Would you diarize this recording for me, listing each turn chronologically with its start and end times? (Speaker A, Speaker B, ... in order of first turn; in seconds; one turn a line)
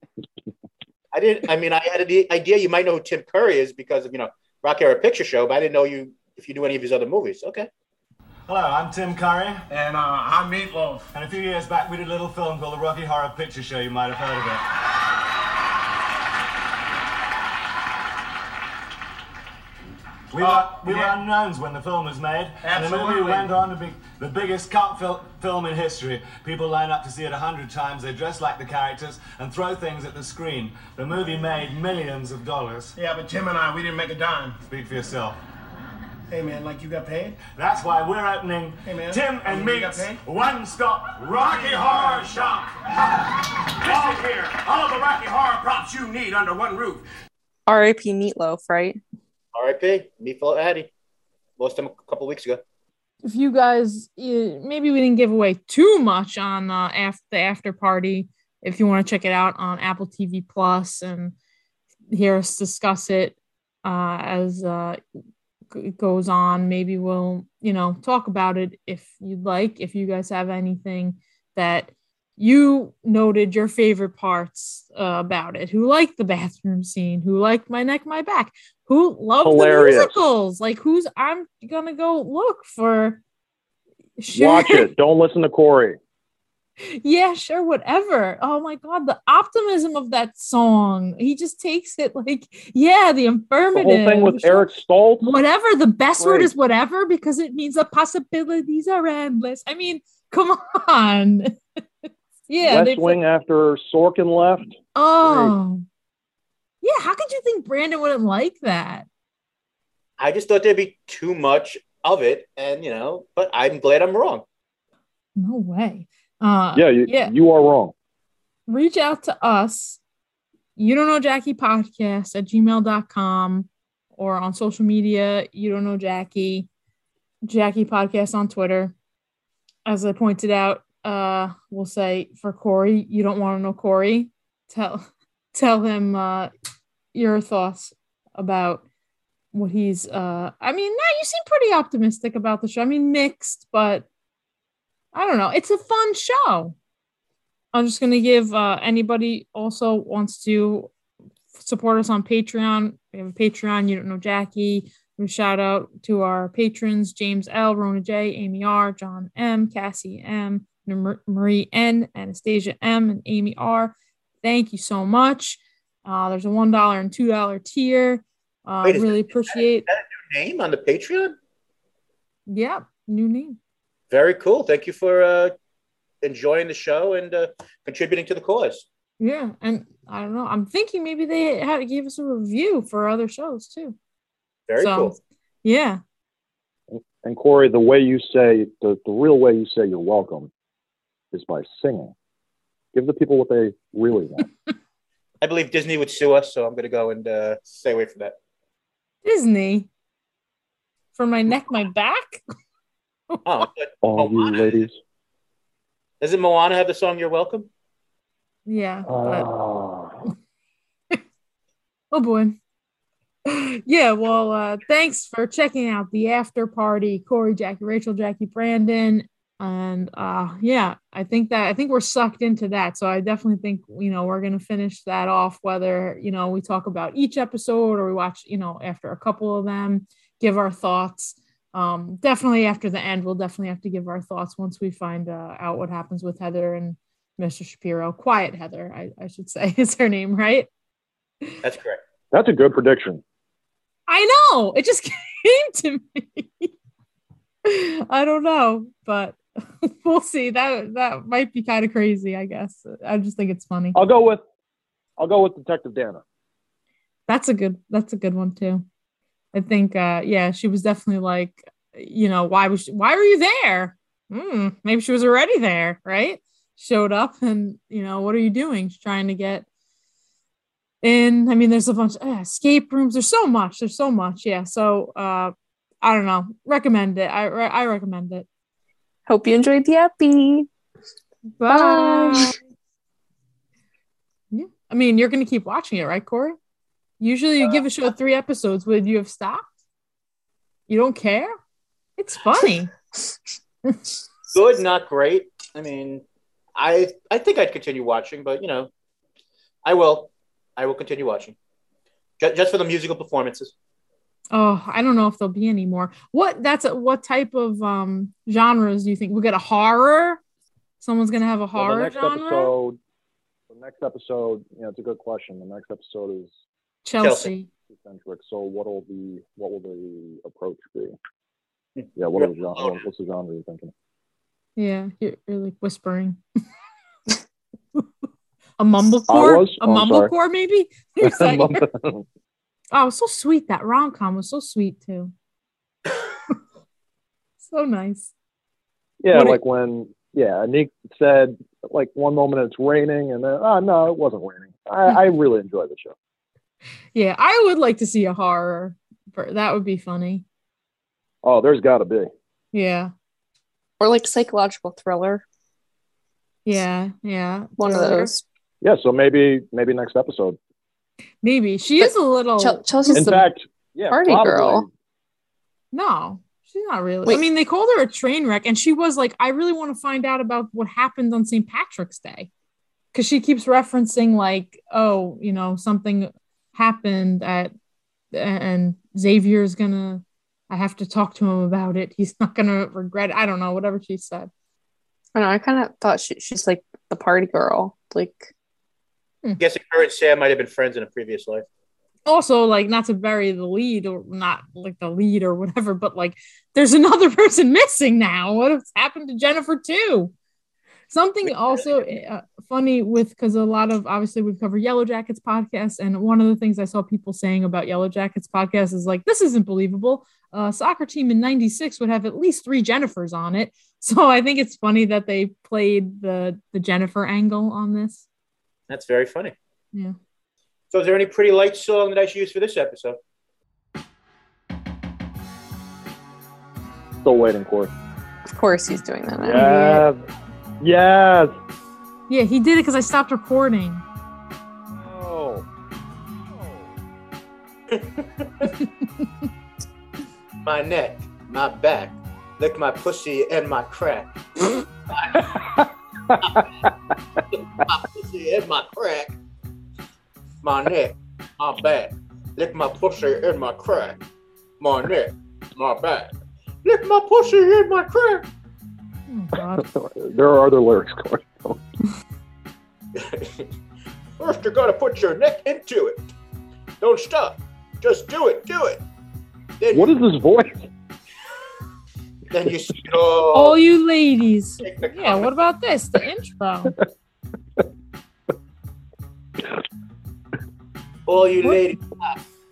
Speaker A: 1.1-7.7
Speaker B: 8.5-9.6
Speaker C: 9.7-11.1
Speaker B: 11.1-14.6
Speaker B: 20.3-32.9
Speaker C: 20.4-21.1
Speaker C: 22.6-23.5
Speaker C: 33.0-34.6
Speaker B: 34.7-35.4
Speaker C: 36.3-37.4
Speaker B: 37.4-42.8
Speaker C: 38.8-40.2
Speaker C: 41.4-42.2
Speaker B: 43.8-45.0
Speaker C: 45.0-47.0
Speaker D: 47.7-49.0
Speaker A: 49.5-50.9
Speaker A: 51.6-52.6
Speaker E: 53.2-61.3
Speaker E: 62.1-65.0
Speaker E: 65.7-83.2
Speaker F: 79.4-80.2
Speaker E: 84.2-84.9
Speaker F: 84.3-86.0
Speaker E: 86.8-94.7
Speaker F: 93.7-95.3
Speaker E: 95.2-101.6
Speaker F: 96.2-96.5
Speaker E: 102.5-103.2
Speaker F: 102.6-105.5
Speaker E: 104.9-105.8
Speaker E: 106.8-109.0
Speaker A: 110.2-114.4
Speaker E: 115.3-117.3
Speaker F: 116.7-117.9
Speaker E: 118.7-120.0
Speaker E: 120.8-126.7
Speaker E: 127.4-128.9
Speaker E: 129.8-136.5
Speaker E: 137.1-138.8
Speaker E: 139.5-144.1
Speaker E: 145.1-146.7
Speaker E: 147.7-150.9
Speaker E: 151.6-169.8
Speaker A: 168.8-171.3
Speaker E: 172.5-173.6
Speaker A: 174.1-175.5
Speaker A: 176.2-178.8
Speaker E: 179.2-183.9
Speaker A: 184.7-185.1
Speaker E: 184.8-186.0
Speaker F: 186.9-190.5
Speaker F: 191.3-192.1
Speaker F: 192.9-194.4
Speaker A: 195.4-198.3
Speaker E: 199.2-199.9
Speaker E: 201.1-202.4
Speaker A: 203.4-204.8
Speaker F: 204.0-204.9
Speaker A: 206.2-207.7
Speaker E: 208.7-209.5
Speaker F: 209.1-210.3
Speaker E: 212.1-212.6
Speaker E: 213.4-240.7
Speaker A: 241.6-242.0
Speaker F: 242.3-243.2
Speaker E: 244.1-246.7
Speaker E: 247.6-254.0
Speaker F: 253.9-254.4
Speaker F: 255.2-256.2
Speaker E: 257.3-258.8
Speaker E: 259.5-269.6
Speaker E: 271.0-278.5
Speaker D: 279.3-280.7
Speaker E: 281.6-282.6
Speaker D: 281.7-282.5
Speaker E: 284.5-286.6
Speaker E: 287.2-289.6
Speaker E: 290.9-291.5
Speaker E: 292.2-292.9
Speaker A: 294.5-296.2
Speaker A: 296.8-298.9
Speaker A: 299.8-301.5
Speaker A: 302.4-303.7
Speaker E: 304.5-310.4
Speaker E: 311.0-312.7
Speaker F: 311.7-313.0
Speaker F: 313.7-316.5
Speaker E: 317.0-317.7
Speaker A: 317.2-317.5
Speaker F: 317.9-321.1
Speaker A: 322.0-323.0
Speaker F: 322.1-323.9
Speaker E: 324.8-326.4
Speaker E: 328.8-331.8
Speaker F: 329.3-330.3
Speaker F: 331.2-332.2
Speaker E: 332.9-335.3
Speaker E: 337.6-338.3
Speaker F: 339.2-346.1
Speaker E: 339.3-339.6
Speaker E: 347.1-350.4
Speaker F: 351.4-352.3
Speaker E: 352.7-353.1
Speaker D: 354.0-355.4
Speaker E: 356.6-358.3
Speaker D: 357.8-358.4
Speaker F: 358.8-360.6
Speaker E: 361.4-363.2
Speaker D: 362.0-363.5
Speaker F: 363.1-364.9
Speaker D: 364.1-364.8
Speaker E: 365.9-372.5
Speaker E: 373.1-377.7
Speaker E: 378.3-384.5
Speaker D: 385.3-388.5
Speaker A: 389.6-391.6
Speaker E: 392.2-400.3
Speaker E: 401.1-418.2
Speaker A: 418.9-419.5
Speaker A: 420.9-423.2
Speaker F: 427.2-427.9
Speaker D: 428.5-430.0
Speaker F: 429.4-430.2
Speaker F: 430.8-431.5
Speaker E: 432.3-434.0
Speaker F: 434.9-435.6
Speaker A: 437.9-438.7
Speaker E: 438.8-439.0
Speaker A: 440.6-444.3
Speaker A: 445.1-445.5
Speaker F: 446.3-446.9
Speaker A: 447.5-449.4
Speaker A: 450.6-454.2
Speaker A: 454.8-456.3
Speaker A: 456.8-458.4
Speaker E: 459.3-459.9
Speaker F: 459.8-461.8
Speaker A: 463.1-463.7
Speaker A: 464.4-466.2
Speaker A: 467.0-469.0
Speaker A: 469.8-470.1
Speaker F: 469.9-470.9
Speaker A: 472.5-473.8
Speaker E: 473.5-476.9
Speaker A: 474.8-475.5
Speaker A: 481.3-482.4